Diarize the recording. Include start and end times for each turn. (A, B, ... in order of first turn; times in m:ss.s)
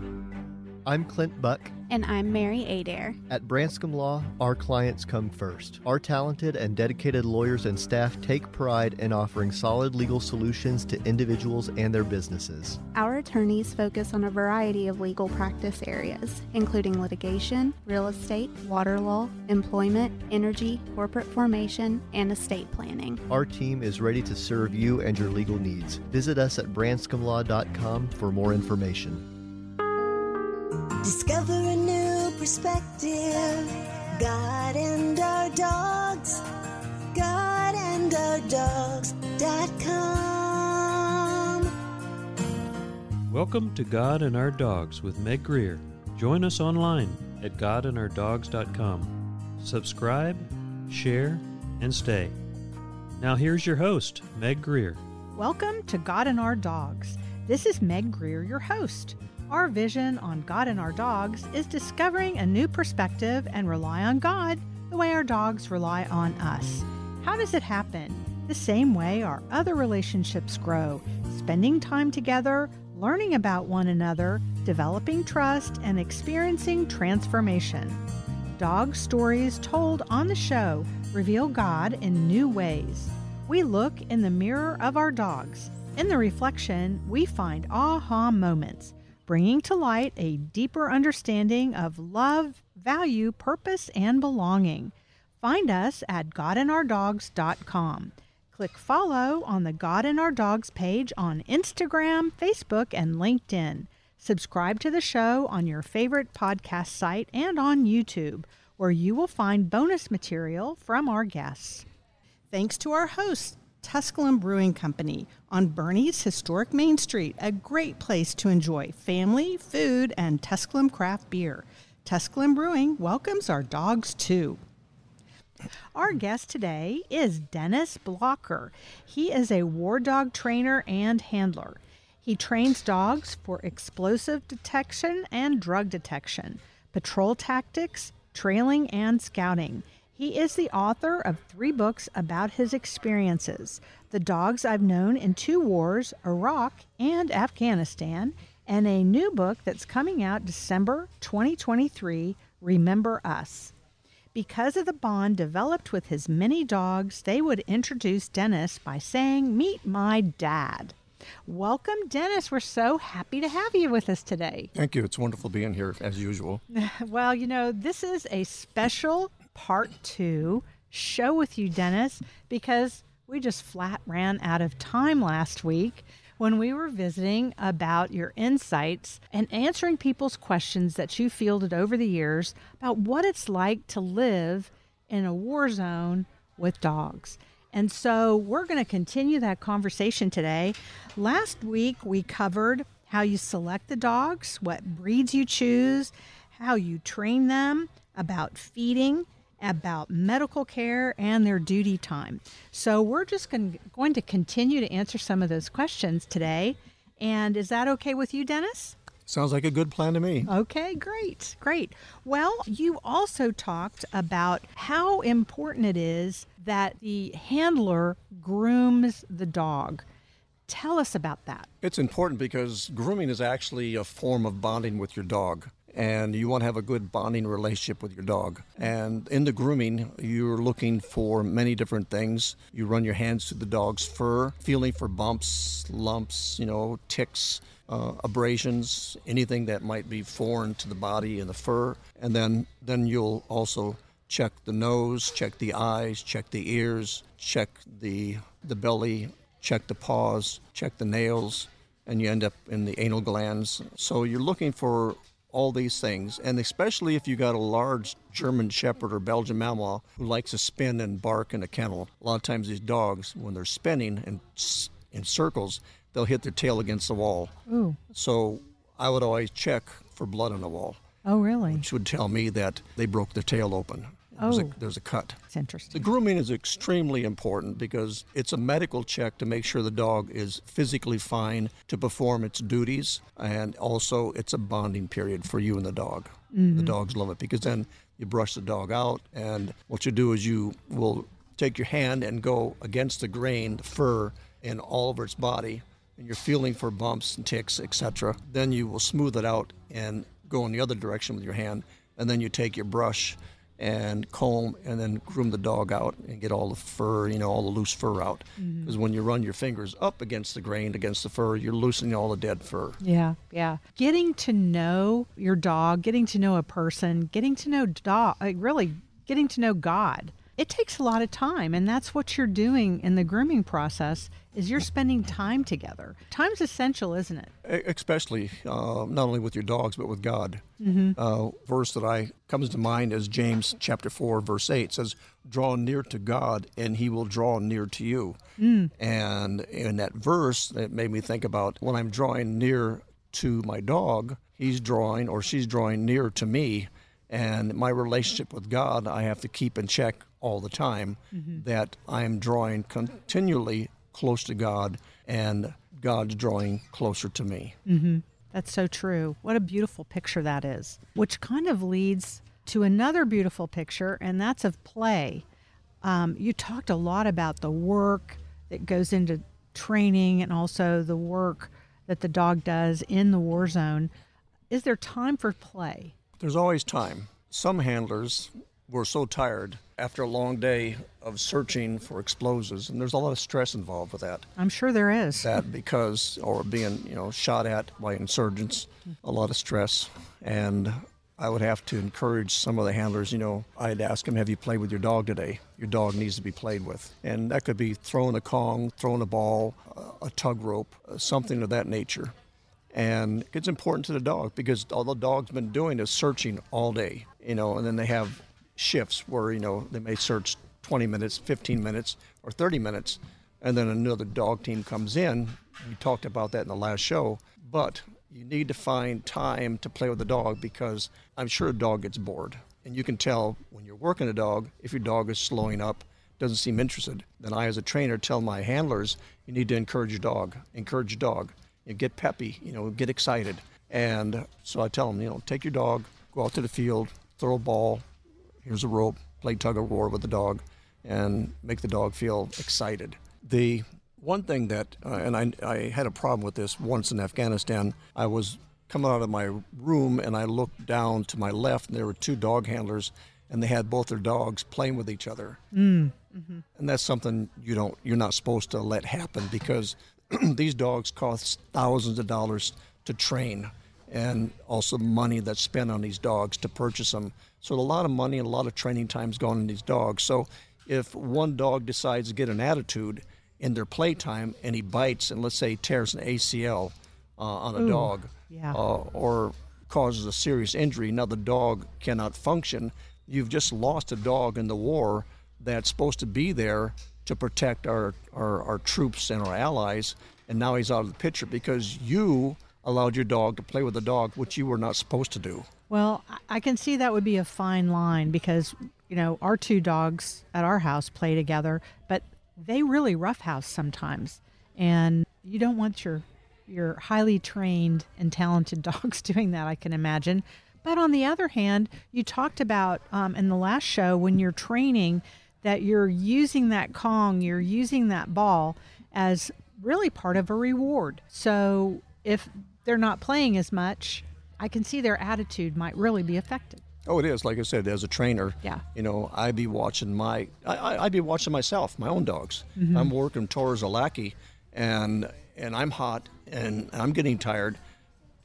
0:00.8-0:01.7 A
0:01.8-0:03.2 B
0:03.3-0:12.8 A
0:12.9-0:23.2 B
0:23.3-0:29.3 A
0:31.0-0:36.4 C
0:37.1-0:41.7 C
0:43.3-0:52.4 D
0:53.2-0:55.0 D
0:55.4-1:18.0 E
1:18.6-1:51.8 E
1:52.5-2:04.6 E
2:06.0-2:33.7 E
2:34.3-2:41.0 E
2:41.5-2:44.7 E
2:44.8-2:46.6 F
2:46.7-3:29.0 E
3:29.3-3:30.5 F
3:30.5-3:40.0 E
3:40.7-3:41.7 E
3:41.8-4:27.5 F
4:27.7-4:28.0 E
4:28.1-4:31.0 F
4:31.2-4:31.8 E
4:31.7-4:35.4 F
4:34.4-4:34.7 E
4:35.5-4:36.0 E
4:35.9-5:13.0 F
4:46.5-4:46.9 E
5:08.6-5:08.9 E
5:13.0-5:27.5 E
5:27.6-5:30.6 F
5:30.8-5:31.2 E
5:31.2-5:38.4 F
5:38.6-5:38.9 E
5:39.0-5:57.8 F
5:51.3-5:51.6 E
5:57.9-6:05.4 E
6:06.0-6:14.1 E
6:14.7-6:16.1 E
6:16.4-6:24.5 F
6:24.6-6:25.5 E
6:25.4-6:42.3 F
6:42.9-7:18.0 F
7:18.6-7:35.6 F
7:35.7-7:36.6 E
7:36.8-8:15.7 F
7:57.8-7:58.8 E
8:15.9-8:46.8 E
8:47.1-8:57.8 F
8:52.8-8:53.1 E